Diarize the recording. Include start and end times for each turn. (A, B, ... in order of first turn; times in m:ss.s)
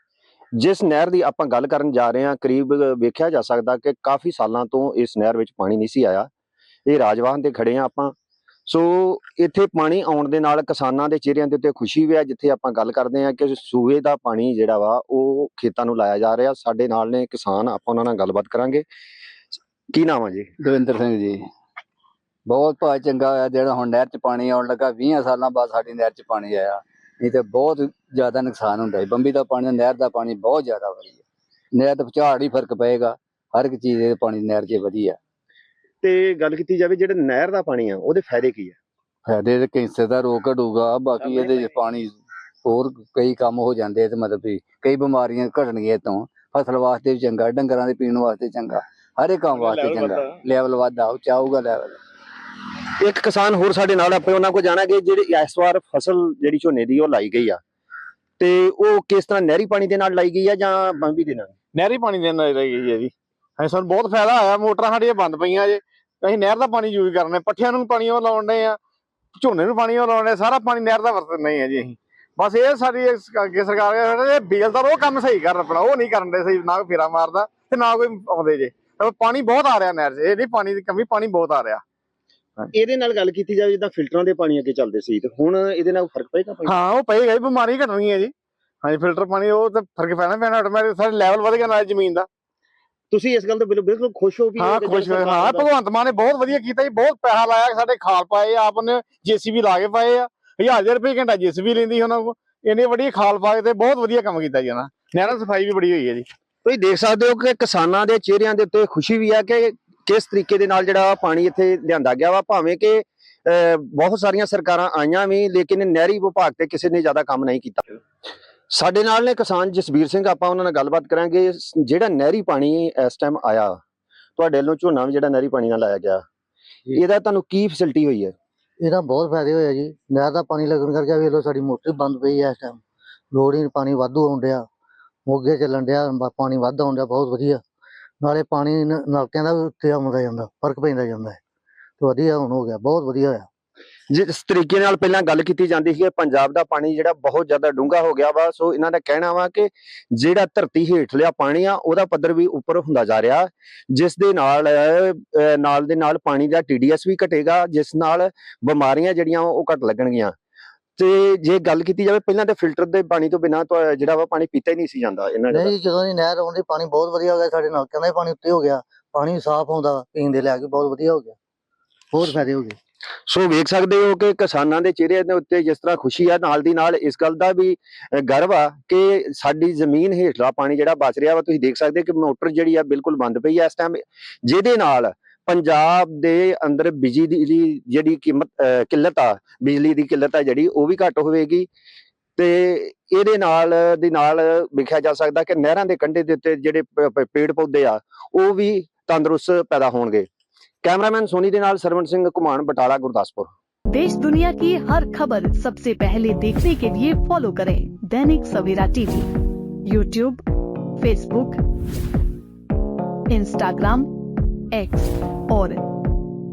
0:00.6-0:06.3 A
0:06.9-0:08.1 A
0:08.7-0:18.9 A
0:19.9-0:20.5 A
0:20.6-0:21.4 B
0:22.5-0:35.2 B
0:36.0-0:38.8 A
0:39.3-0:52.0 B
0:53.0-0:57.6 A
0:58.4-1:01.5 A
1:01.8-1:08.8 C
1:09.4-1:21.8 C
1:22.7-1:26.7 A
1:26.7-1:28.3 C
1:28.8-1:32.3 C
1:33.1-1:35.7 A
1:34.6-1:46.3 C
1:46.6-1:57.8 A
1:58.7-2:03.8 A
2:04.4-2:06.2 A
2:07.0-2:08.3 A
2:08.8-2:12.8 D
2:13.3-2:14.6 D
2:15.3-2:17.6 D
2:18.2-2:21.4 D
2:22.0-2:23.5 D
2:24.1-2:40.4 A
2:41.0-2:45.7 A
2:45.5-2:51.4 D
2:52.1-2:52.8 D
2:53.3-3:11.7 A
3:12.4-3:20.3 A
3:20.8-3:23.5 A
3:23.9-3:29.3 E
3:29.9-3:30.4 E
3:31.0-3:31.6 E
3:33.3-3:34.1 E
3:34.7-3:35.8 E